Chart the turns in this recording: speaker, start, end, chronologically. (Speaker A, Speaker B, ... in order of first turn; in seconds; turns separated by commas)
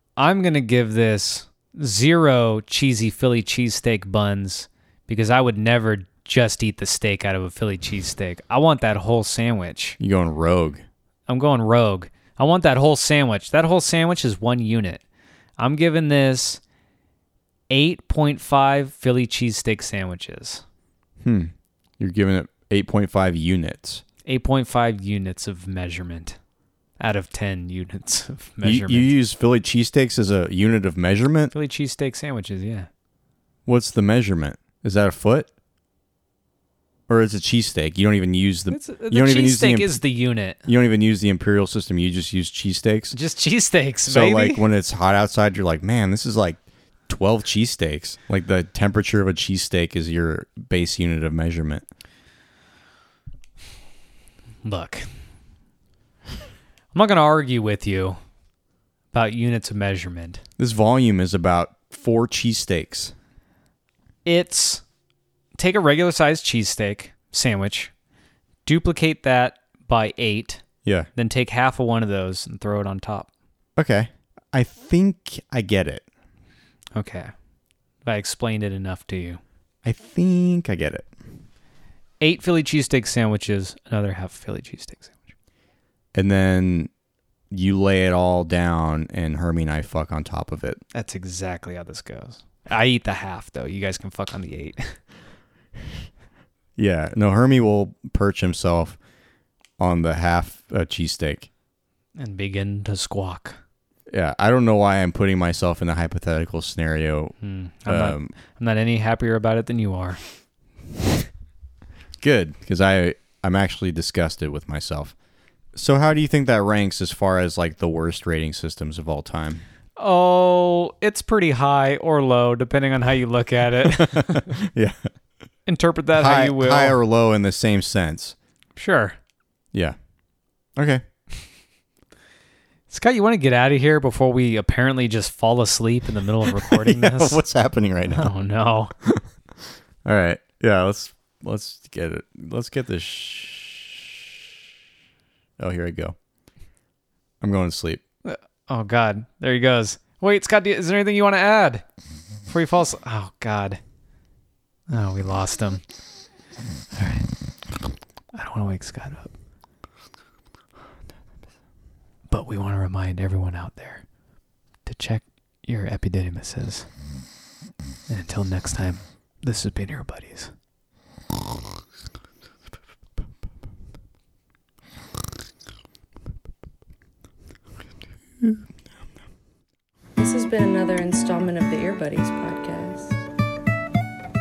Speaker A: 0.2-10.0, Speaker B: 10.0-10.8, Speaker A: 11.3-15.0, Speaker A: 15.6-16.6, Speaker A: 17.7-20.6, Speaker B: 21.2-24.0, Speaker A: 24.2-26.4, Speaker A: 27.0-29.1, Speaker B: 28.6-31.5, Speaker A: 31.5-32.9, Speaker B: 33.6-35.5, Speaker B: 37.1-40.0, Speaker A: 38.7-40.6, Speaker B: 40.7-43.1, Speaker A: 43.1-44.7, Speaker B: 44.0-51.8, Speaker A: 54.6-55.1, Speaker A: 56.9-58.2, Speaker A: 59.1-60.4, Speaker B: 60.6-63.1, Speaker A: 64.2-64.8, Speaker A: 65.5-67.9, Speaker A: 68.7-70.6, Speaker A: 71.2-73.3, Speaker B: 73.8-76.0, Speaker A: 77.0-77.3, Speaker A: 78.0-79.4, Speaker B: 79.8-81.1, Speaker A: 82.2-85.3, Speaker B: 86.1-86.9, Speaker B: 87.5-90.8, Speaker A: 90.9-95.0, Speaker B: 96.8-99.0, Speaker B: 99.8-101.5, Speaker A: 102.2-103.6, Speaker B: 104.1-107.3, Speaker A: 107.4-110.2, Speaker B: 107.8-108.3, Speaker B: 112.2-115.1, Speaker B: 115.7-119.6, Speaker A: 120.0-124.6, Speaker B: 123.8-125.0, Speaker A: 125.7-127.0, Speaker B: 126.2-128.3, Speaker A: 128.8-129.2, Speaker B: 130.8-131.0, Speaker A: 132.9-137.4, Speaker B: 136.6-138.3, Speaker A: 138.1-138.9, Speaker B: 139.0-139.2, Speaker B: 140.0-144.4, Speaker B: 145.6-146.2, Speaker B: 147.4-148.0, Speaker A: 148.2-151.8, Speaker A: 152.5-153.8, Speaker A: 154.9-155.8, Speaker A: 156.9-157.3, Speaker A: 158.3-159.3, Speaker A: 162.3-164.0, Speaker A: 164.8-166.9, Speaker A: 168.1-170.5, Speaker C: 180.2-183.2